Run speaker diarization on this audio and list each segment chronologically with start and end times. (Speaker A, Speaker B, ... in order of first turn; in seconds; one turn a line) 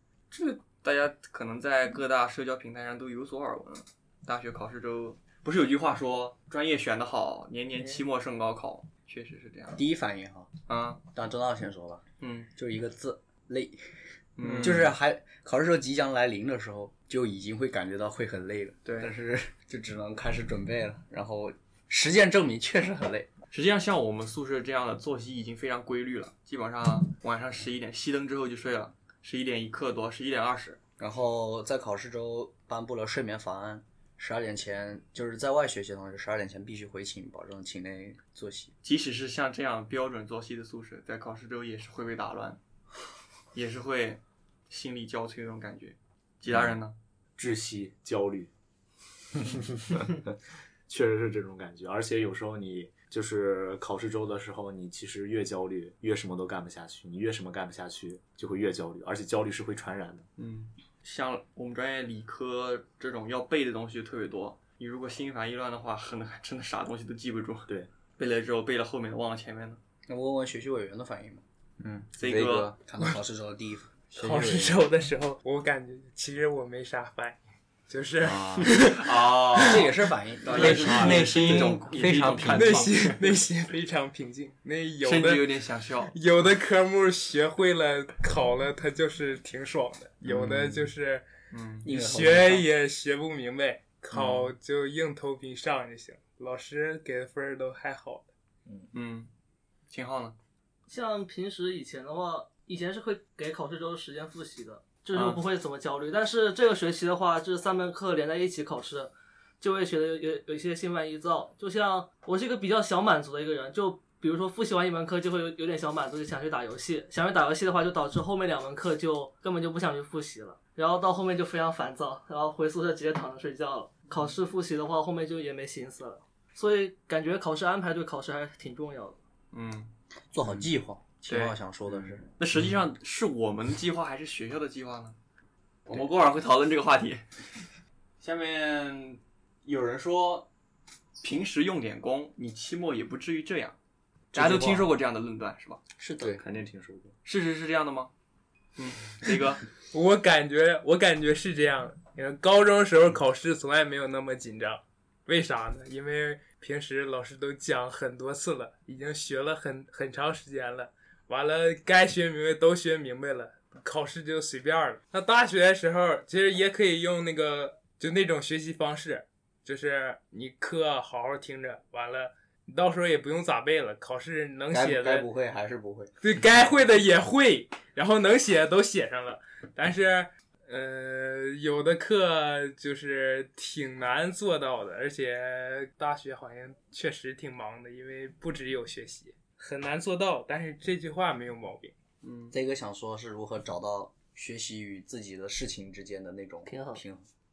Speaker A: 0.3-9.8
Speaker B: 9.8-10.5
Speaker A: 10.7-11.0
Speaker B: 11.1-12.0
Speaker A: 12.2-12.5
Speaker B: 12.6-23.3
Speaker A: 14.4-14.9
Speaker A: 18.9-19.1
Speaker A: 23.5-30.8
Speaker B: 31.0-38.7
Speaker A: 38.8-42.6
Speaker A: 43.5-47.0
Speaker C: 47.4-48.5
Speaker C: 49.4-50.2
Speaker C: 50.9-60.3
Speaker A: 60.4-69.8
Speaker B: 70.1-71.4
Speaker D: 71.8-72.8
Speaker A: 72.2-72.7
Speaker B: 72.8-73.9
Speaker D: 74.1-74.9
Speaker E: 74.2-79.9
Speaker D: 78.2-78.7
Speaker A: 78.9-83.2
Speaker B: 79.6-83.1
Speaker D: 80.5-82.6
Speaker E: 82.5-85.5
Speaker A: 85.0-86.2
Speaker E: 86.1-91.3
Speaker B: 90.2-90.8
Speaker A: 91.5-91.9
Speaker B: 91.8-92.7
Speaker E: 91.9-98.3
Speaker A: 94.1-94.5
Speaker A: 98.9-99.3
Speaker A: 99.9-100.3
Speaker F: 100.9-129.2
Speaker A: 105.1-105.4
Speaker A: 129.5-129.9
Speaker B: 130.3-132.2
Speaker A: 131.3-131.6
Speaker A: 132.3-135.2
Speaker A: 135.9-137.2
Speaker A: 138.2-140.5
Speaker A: 141.2-143.8
Speaker C: 144.3-144.9
Speaker A: 144.3-145.8
Speaker B: 146.0-146.4
Speaker C: 146.4-147.2
Speaker A: 147.2-148.1
Speaker A: 148.8-149.6
Speaker E: 149.9-175.3
Speaker B: 174.7-176.1
Speaker E: 176.2-191.9
Speaker A: 192.2-192.6
Speaker B: 192.5-197.3
Speaker F: 196.7-197.0